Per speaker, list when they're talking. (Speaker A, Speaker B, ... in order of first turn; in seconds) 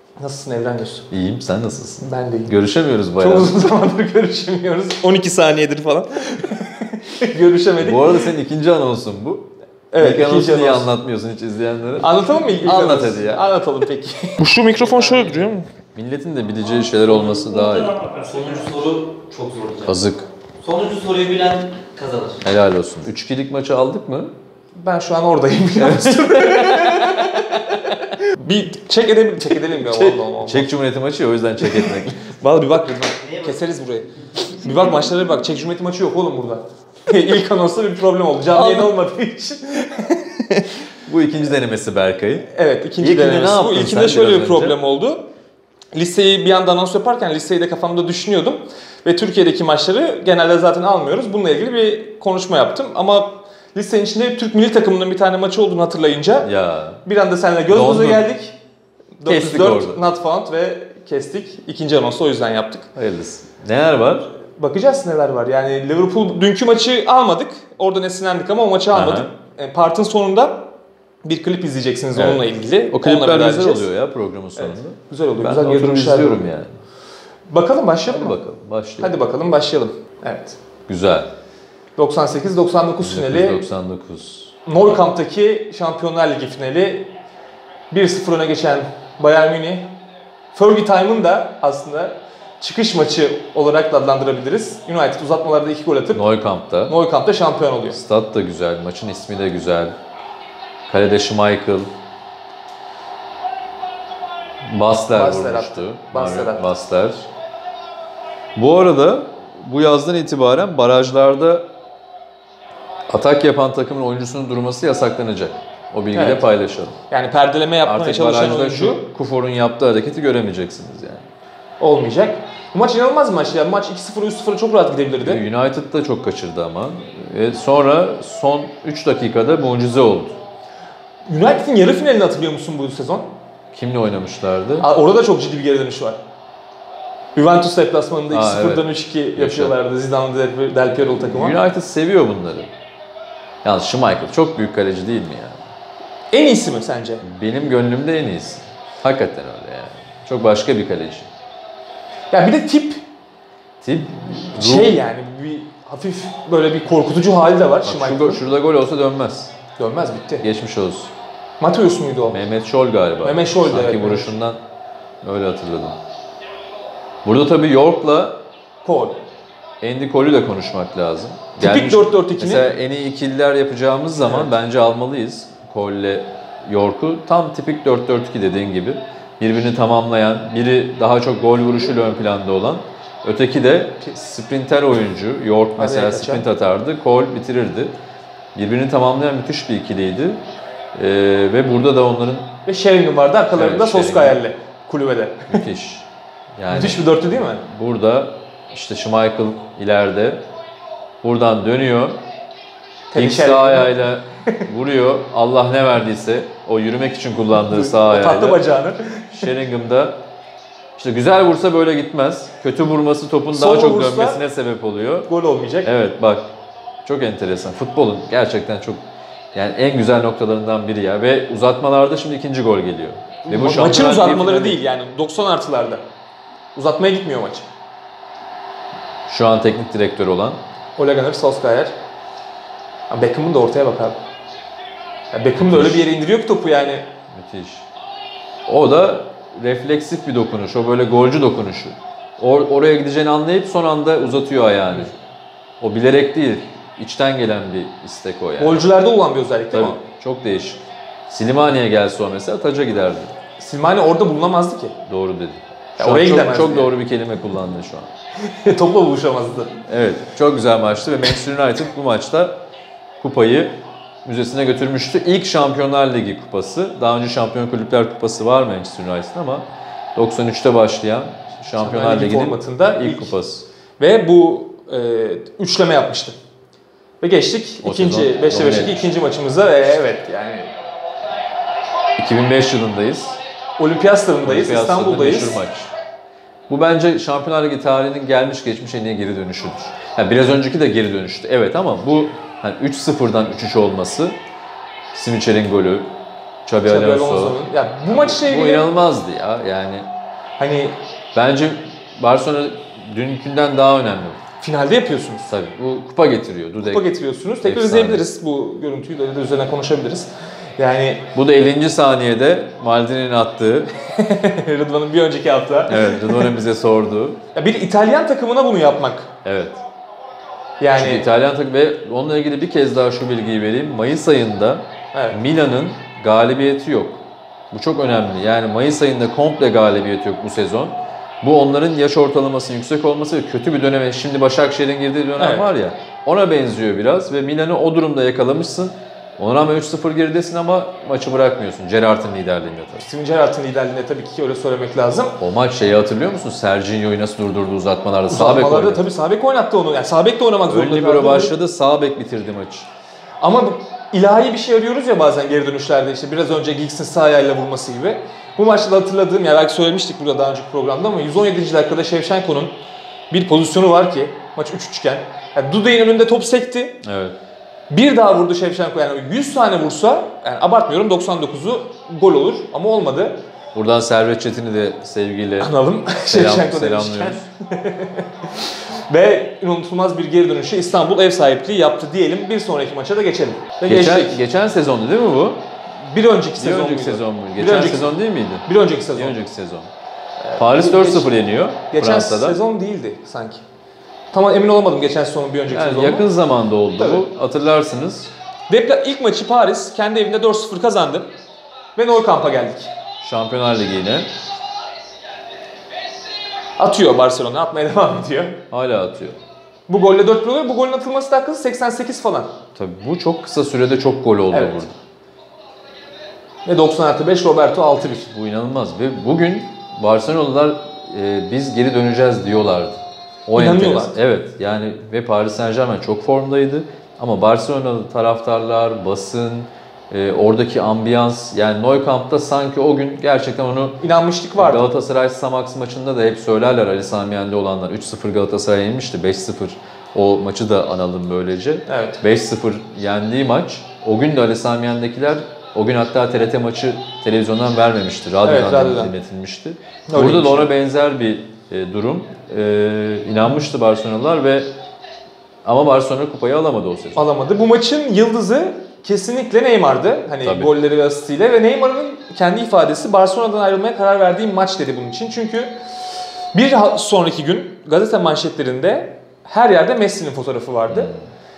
Speaker A: 0.2-1.1, 2.0-2.5, 3.2-8.3, 9.9-10.9, 12.0-15.7, 24.7-27.3, 28.1-30.7, 31.6-40.7, 42.5-45.2, 45.9-56.5, 57.0-58.5, 59.2-62.9, 64.6-70.6, 71.2-73.9, 74.5-76.5, 77.5-78.4, 79.0-80.6, 82.0-83.6, 84.7-87.1, 87.9-89.9, 90.5-96.2, 96.9-98.0, 105.1-106.7, 116.1-116.5, 117.1-119.0, 121.8-125.4, 131.3-133.3, 134.8-136.2, 137.3-141.6, 146.3-147.2, 152.3-153.0, 154.5-158.4, 159.8-160.4, 161.6-162.4, 163.2-164.3, 168.8-169.2, 171.6-172.7, 174.2-174.5, 185.8-186.4, 192.6-195.6, 196.7-197.6, 203.1-203.9, 207.6-209.5, 213.5-214.4, 215.3-215.9, 223.5-226.0, 226.7-227.7, 231.0-231.9, 233.1-234.2, 235.3-237.0, 248.6-250.0, 253.6-254.9, 256.0-256.9, 258.4-259.8, 271.8-273.3, 274.0-276.4, 277.2-280.7, 283.8-285.6, 296.8-298.8, 300.6-300.9, 304.6-305.5, 306.8-311.3, 314.1-316.5, 317.5-319.3, 320.8-321.2, 325.1-325.4, 335.4-335.7, 343.0-345.4, 348.3-351.5, 353.4-362.7, 363.3-367.0, 367.9-373.4, 375.6-384.4, 386.0-389.4, 390.4-391.3, 391.9-393.6, 394.3-396.3, 397.0-397.2, 398.7-401.3, 401.9-402.9, 406.8-408.6, 409.9-412.5, 414.5-414.9, 416.6-418.3, 423.5-424.1, 434.0-434.9, 441.9-442.2, 448.4-449.1, 450.1-450.7, 457.1-465.7, 466.5-471.1
Speaker B: 1.1-3.5, 7.8-13.4, 15.8-18.0, 19.9-20.2, 22.4-24.3, 25.8-27.9, 30.1-32.3, 38.5-38.9, 41.0-42.5, 43.0-44.8, 56.4-57.0, 57.7-58.2, 59.2-60.0, 62.9-64.3, 68.9-69.3, 72.1-76.8, 78.1-79.1, 80.9-81.3, 83.0-84.7, 96.1-96.9, 97.9-99.9, 100.9-101.9, 104.7-107.3, 108.5-111.7, 113.1-117.0, 117.8-121.3, 125.2-130.3, 133.7-134.9, 138.3-139.7, 141.2-142.7, 143.6-145.6, 147.2-151.3, 153.8-155.0, 157.8-159.5, 160.4-161.1, 162.3-164.6, 165.2-166.0, 167.2-168.4, 169.8-187.9, 188.5-190.4, 190.9-192.6, 193.5-194.4, 195.5-200.4, 201.2-202.2, 203.2-208.7, 209.3-210.2, 211.0-215.3, 215.8-216.5, 217.0-219.0, 219.5-224.8, 229.3-230.6, 235.6-236.1, 237.3-237.9, 238.7-245.1, 245.8-248.9, 249.7-253.3, 255.1-258.1, 259.9-262.6, 263.2-273.6, 277.8-279.1, 282.2-283.4, 284.4-285.9, 286.7-294.4, 295.1-296.1, 296.6-297.6, 298.1-300.1, 301.3-304.4, 305.5-308.2, 311.3-313.9, 315.9-317.4, 319.4-319.8, 320.9-343.1, 345.4-349.1, 350.7-352.9, 367.0-367.3, 373.7-377.4, 383.9-385.6, 386.6-389.9, 390.6-392.6, 395.7-398.3, 403.2-404.3, 408.7-409.4, 412.8-414.9, 418.3-434.0, 434.6-454.7, 455.6-457.2, 460.4-460.7, 470.9-471.2
Speaker C: 14.9-15.4, 17.2-19.9, 20.6-22.4